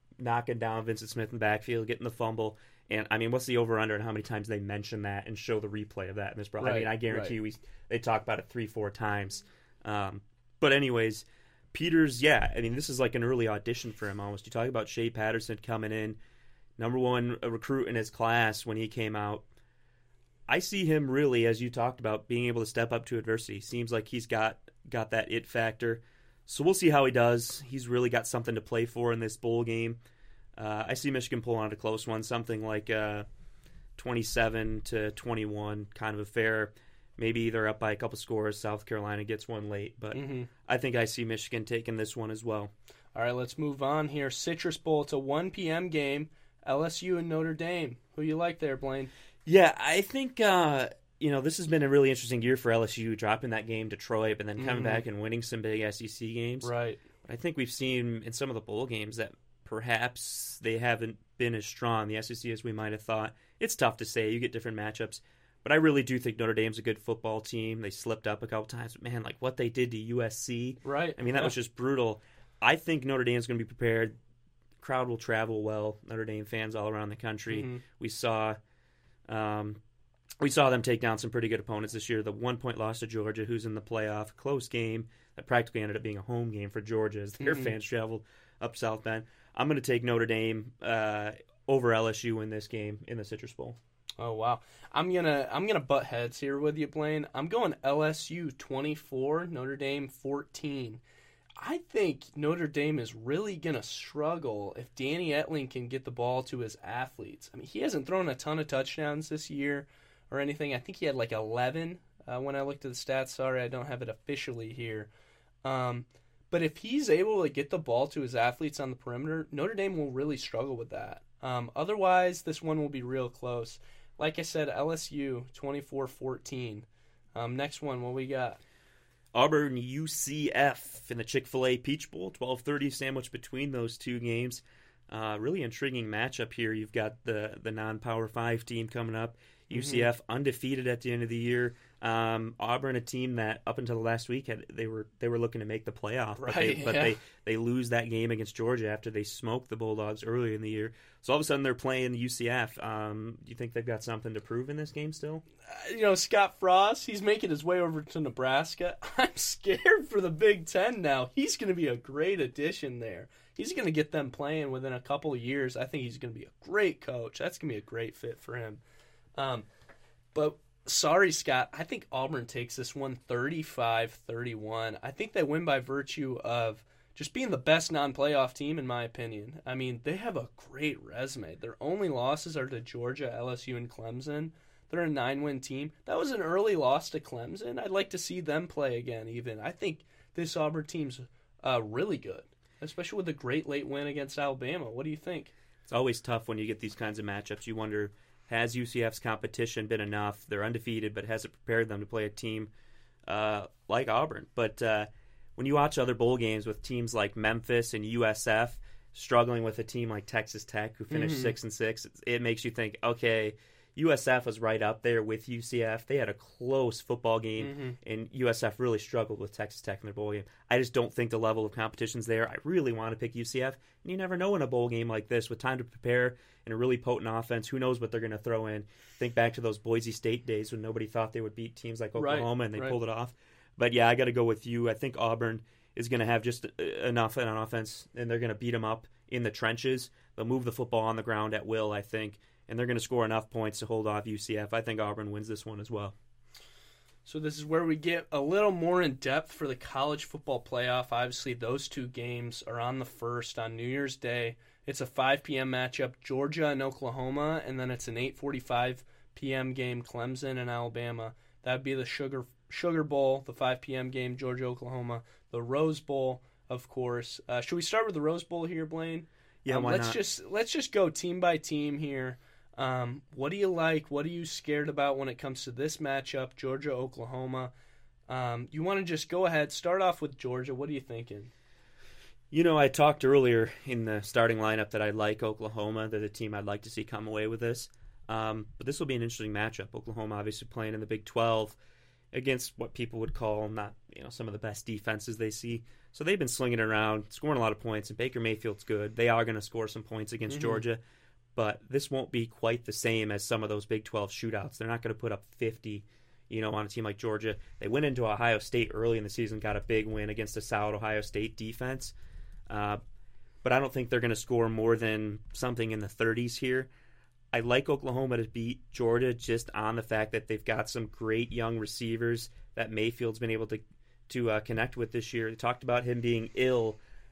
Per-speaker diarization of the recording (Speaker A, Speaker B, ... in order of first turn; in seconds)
Speaker A: 0.2-16.2, 16.8-19.4, 20.5-30.0, 30.6-33.2, 34.0-42.7, 49.5-56.7, 57.2-74.2, 74.8-78.6, 79.3-79.8, 80.4-93.8, 129.3-155.4, 195.9-202.7, 203.3-246.1, 269.6-270.2, 282.5-291.8, 292.3-301.0, 301.6-312.1, 312.7-313.0, 313.6-316.9, 317.5-327.0
Speaker B: 6.6-7.3, 40.1-40.5, 43.1-49.1, 54.6-55.0, 56.6-57.0, 70.8-71.5, 77.5-77.8, 87.4-87.7, 94.2-101.0, 101.6-115.1, 115.6-128.6, 139.7-140.1, 146.4-147.2, 155.7-168.8, 169.3-169.7, 170.3-195.5, 211.1-211.6, 217.6-218.0, 232.2-232.9, 247.2-277.7, 278.3-281.5, 300.5-300.8